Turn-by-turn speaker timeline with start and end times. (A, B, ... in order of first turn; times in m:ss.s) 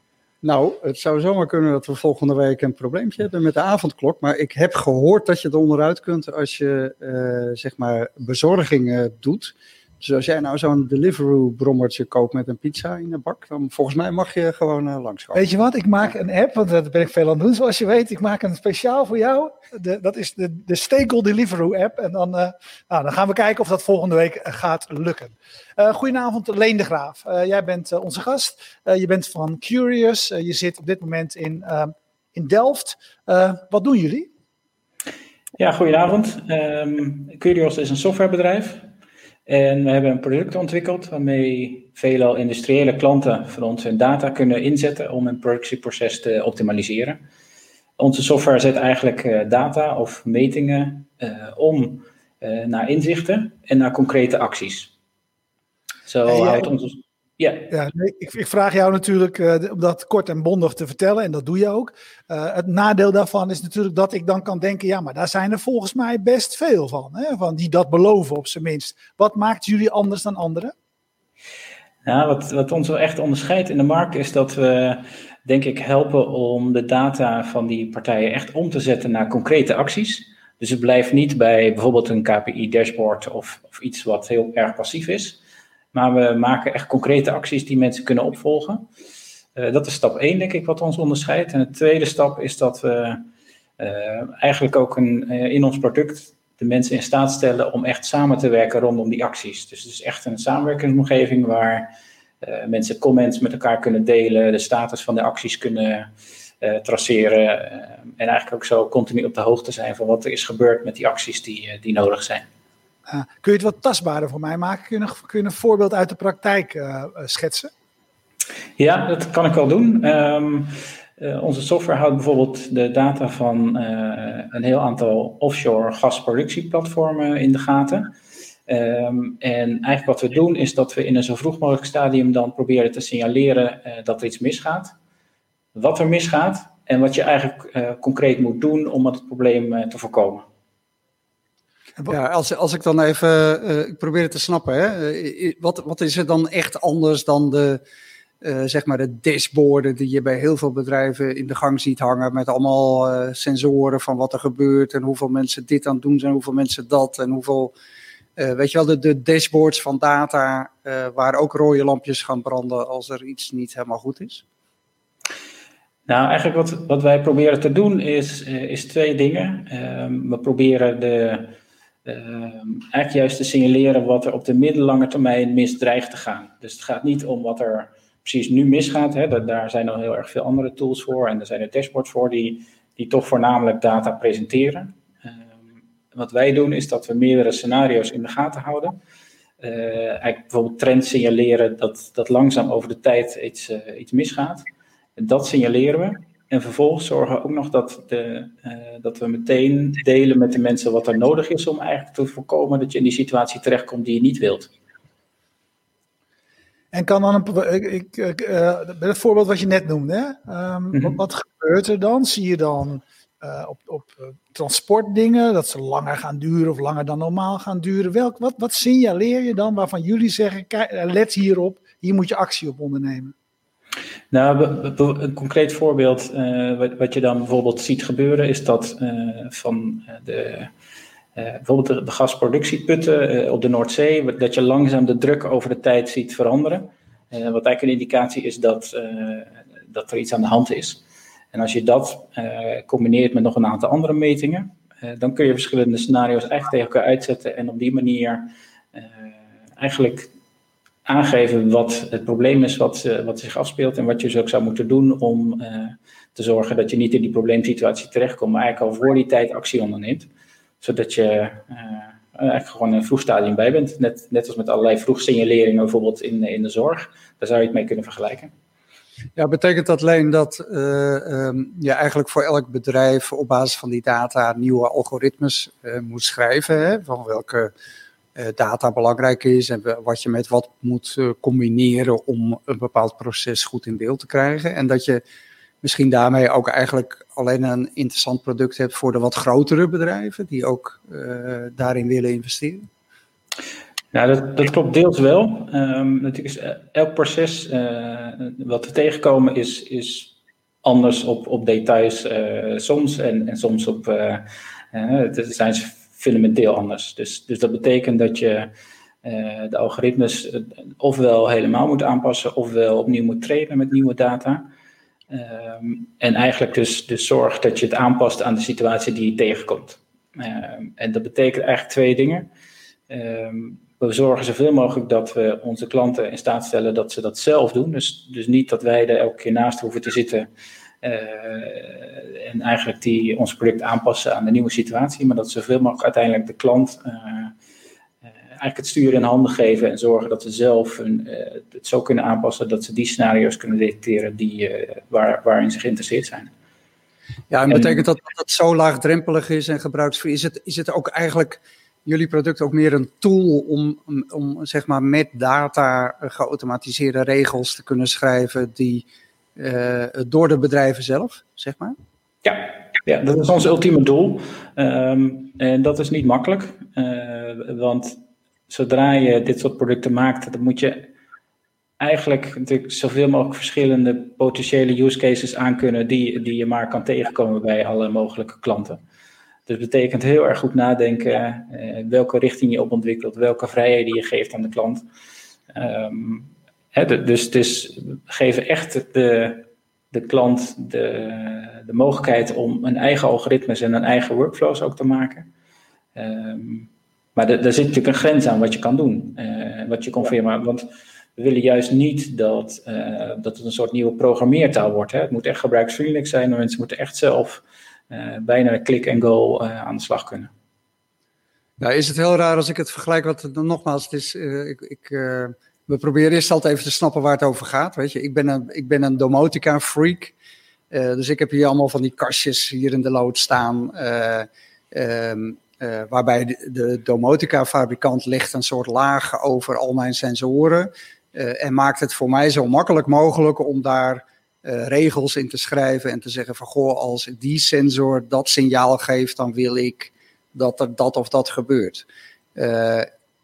0:00.4-0:15.5 A
0:15.3-0:34.3 B
0:35.6-0:38.9 C
0:39.5-0:47.2 C
0:48.0-0:54.9 C
0:56.1-0:57.7 C
0:56.3-0:56.7 B
0:57.7-1:10.7 B
1:12.1-1:25.4 C
1:25.9-1:28.9 C
1:29.6-1:33.2 C
1:33.8-1:41.9 C
1:42.4-1:52.5 C
1:53.1-1:57.7 B
1:58.8-2:08.1 C
2:08.7-2:14.9 C
2:15.8-2:20.5 C
2:22.1-2:27.8 A
2:28.4-2:37.7 A
2:38.4-2:44.4 A
2:46.1-3:05.3 C
3:06.1-3:09.0 C
3:09.6-3:24.7 C
3:26.9-3:43.3 B
3:44.3-3:50.7 C
3:51.4-4:01.0 C
4:01.5-4:10.3 C
4:11.0-4:20.3 C
4:20.8-4:28.5 C
4:29.4-4:37.7 A
4:38.4-4:45.2 A
4:45.8-4:52.9 A
4:54.1-5:08.7 C
5:09.2-5:14.7 C
5:15.3-5:22.5 C
5:23.1-5:30.5 C
5:31.0-5:37.5 C
5:38.6-5:46.5 C
5:47.5-5:59.1 A
5:47.7-5:48.0 C
5:59.6-6:02.0 A
6:02.4-6:11.1 C
6:12.0-6:19.0 C
6:19.7-6:25.0 C
6:25.7-6:35.5 C
6:36.2-6:50.5 C
6:51.8-7:00.4 A
7:00.9-7:23.1 A